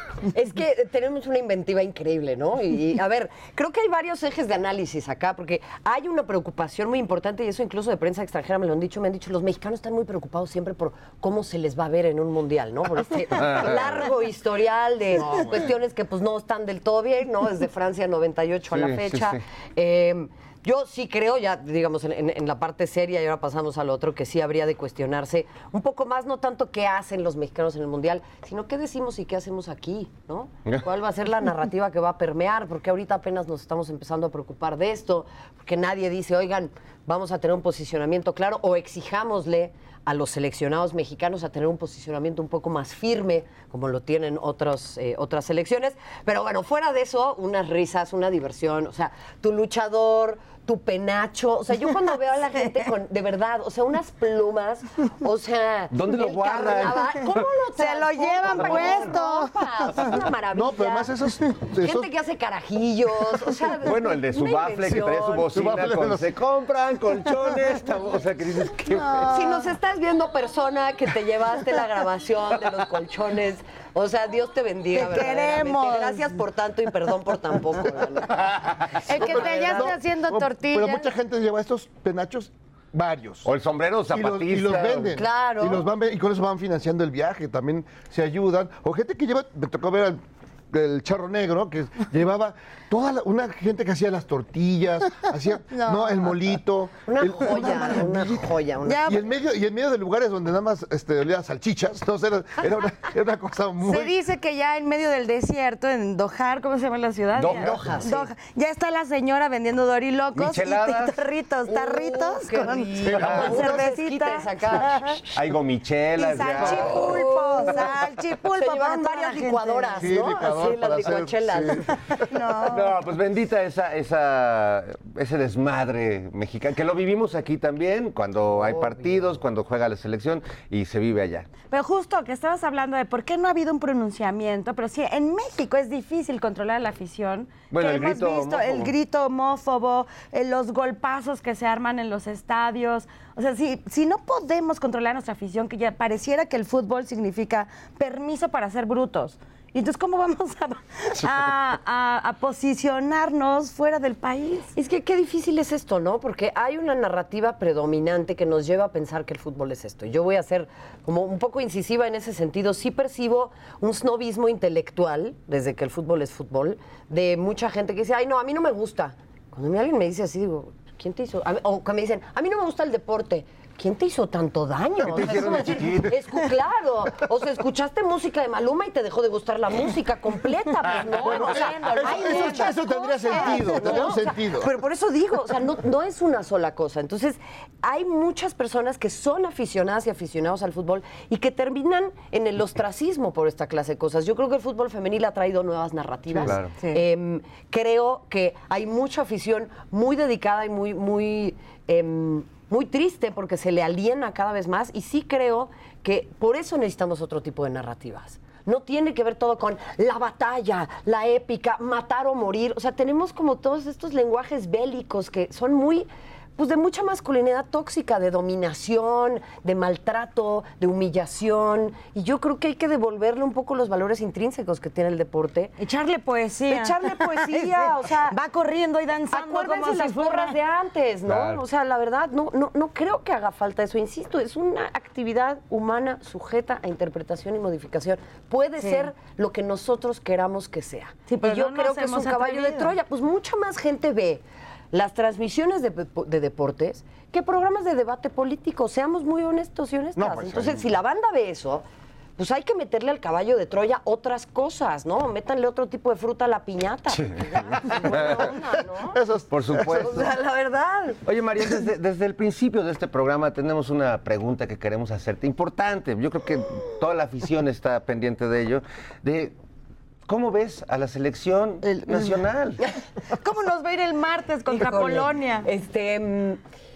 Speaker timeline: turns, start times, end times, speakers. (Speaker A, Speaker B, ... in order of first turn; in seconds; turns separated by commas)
Speaker A: 0.3-61.1, Speaker B: 13.3-14.0, Speaker B: 18.7-19.4, Speaker B: 55.9-57.4, Speaker C: 57.8-59.5, Speaker D: 60.5-62.1, Speaker A: 61.8-65.4, Speaker B: 63.8-69.3, Speaker D: 65.1-66.3, Speaker A: 69.3-80.0, Speaker C: 74.9-76.3, Speaker C: 79.1-81.1, Speaker D: 79.1-83.5, Speaker B: 83.4-85.2, Speaker D: 84.1-98.5, Speaker A: 85.2-85.8, Speaker C: 95.7-96.3, Speaker A: 97.1-99.2, Speaker C: 98.8-99.2, Speaker D: 99.0-104.1, Speaker C: 103.8-115.2, Speaker B: 107.4-108.0, Speaker A: 107.4-108.3, Speaker B: 110.3-111.1, Speaker A: 111.7-115.2, Speaker D: 113.0-113.4, Speaker B: 113.2-113.6, Speaker B: 115.3-117.0, Speaker C: 116.2-120.2, Speaker A: 116.5-117.9, Speaker A: 118.5-121.9, Speaker D: 120.0-121.9, Speaker C: 122.2-122.9, Speaker B: 122.7-131.5, Speaker A: 128.6-129.4, Speaker C: 131.7-154.7, Speaker B: 137.7-138.9, Speaker A: 154.8-225.7, Speaker B: 175.0-176.2, Speaker D: 181.2-184.7, Speaker C: 181.3-182.7, Speaker C: 183.3-184.0, Speaker B: 196.4-196.7, Speaker C: 196.4-197.0, Speaker C: 225.8-230.6, Speaker A: 226.7-228.4, Speaker A: 229.3-251.8, Speaker B: 231.2-231.6, Speaker C: 238.8-239.1, Speaker C: 241.3-242.9, Speaker D: 250.1-250.9, Speaker A: 252.4-259.2, Speaker B: 257.1-258.5, Speaker D: 259.0-260.2, Speaker B: 259.5-260.3, Speaker A: 259.9-261.2, Speaker B: 261.2-269.5, Speaker B: 270.2-272.8, Speaker C: 271.9-272.3, Speaker C: 273.4-275.7, Speaker A: 274.7-276.6